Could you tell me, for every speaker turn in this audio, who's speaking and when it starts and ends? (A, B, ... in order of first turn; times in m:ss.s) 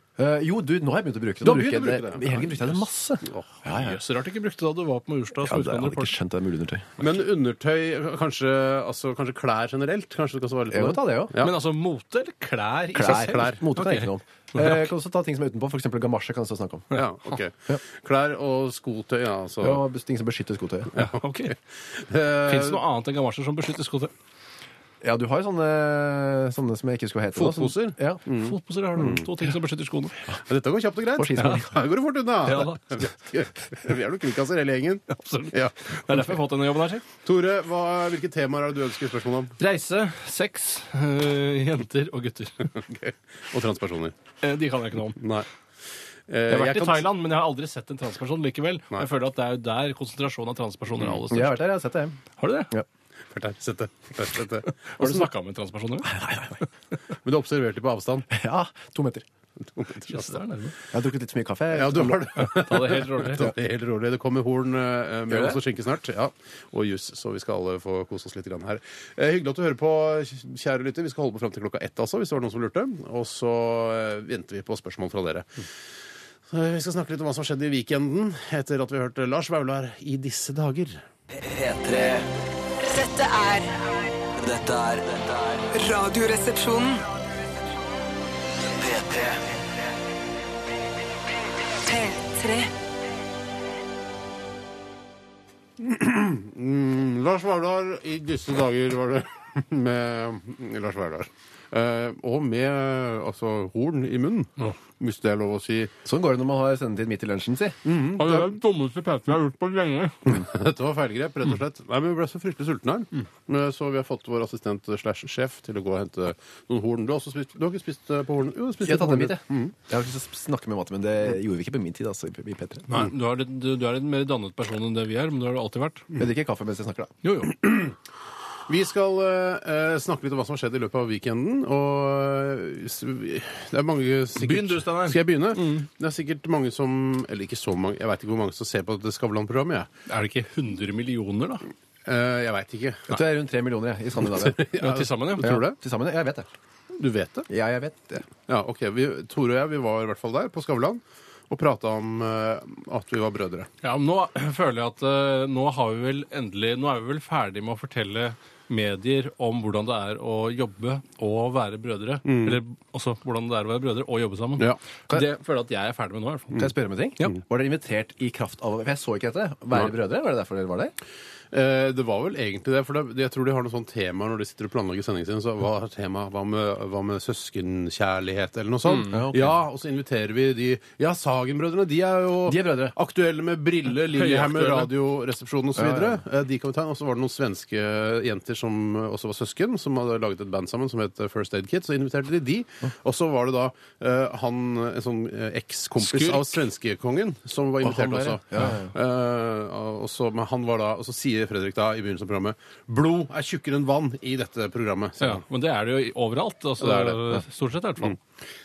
0:00.2-0:04.0 A
0:01.4-0:03.4 B
0:03.7-0:06.2 C
0:05.4-0:07.0 A
0:07.0-0:11.6 B
0:10.7-0:11.4 A
0:11.4-0:14.9 C
0:13.0-0:16.9 A
0:13.0-0:13.6 B
0:16.9-0:19.8 B
0:19.6-0:21.0 A
0:21.0-0:22.8 B
0:21.0-0:21.6 C
0:22.5-0:24.1 C
0:25.0-0:28.2 A
0:27.3-0:29.3 B
0:28.3-0:30.2 C
0:30.5-0:35.9 B
0:31.2-0:31.8 A
0:32.4-0:33.1 C
0:35.1-0:37.0 C
0:37.2-0:39.6 B
0:39.6-0:42.7 C
0:42.8-0:44.2 B
0:44.4-0:45.2 C
0:45.2-0:45.5 B
0:46.3-0:47.1 B
0:46.5-0:51.6 C
0:51.3-0:52.2 A
0:52.4-0:52.7 C
0:53.3-0:54.7 B
0:54.8-0:56.2 C
0:56.0-0:56.6 A
0:57.2-0:58.3 B
0:58.3-0:59.3 A
0:59.8-1:00.4 B
1:00.1-1:00.8 C
1:00.9-1:02.5 A
1:01.7-1:15.6 B
1:02.4-1:03.5 C
1:05.3-1:05.6 A
1:16.5-1:21.0 B
1:21.4-1:22.3 D
1:22.8-1:24.5 E
1:24.4-1:25.6 D
1:25.7-1:27.0 E
1:28.8-1:29.4 D
1:31.8-1:32.7 E
1:35.8-1:45.9 B
1:46.0-1:47.8 A
1:47.8-1:48.5 B
1:48.2-1:50.4 C
1:50.3-1:59.8 B
1:58.8-2:03.0 A
2:02.9-2:06.1 C
2:06.2-2:07.1 A
2:07.2-2:07.6 C
2:08.7-2:19.9 B
2:14.4-2:15.9 C
2:20.1-2:21.6 C
2:22.1-2:23.2 B
2:23.1-2:24.6 A
2:24.3-2:25.8 B
2:24.7-2:25.6 C
2:25.4-2:26.5 A
2:27.0-2:27.5 B
2:27.5-2:28.2 A
2:28.5-2:33.7 B
2:33.8-2:47.4 C
2:42.3-2:42.6 B
2:46.5-2:50.9 A
2:51.5-3:25.4 B
2:59.0-2:59.6 A
3:02.5-3:03.0 A
3:04.1-3:04.9 C
3:05.8-3:06.2 A
3:16.0-3:16.6 C
3:17.8-3:18.9 A
3:25.2-3:28.2 C
3:26.8-3:27.4 B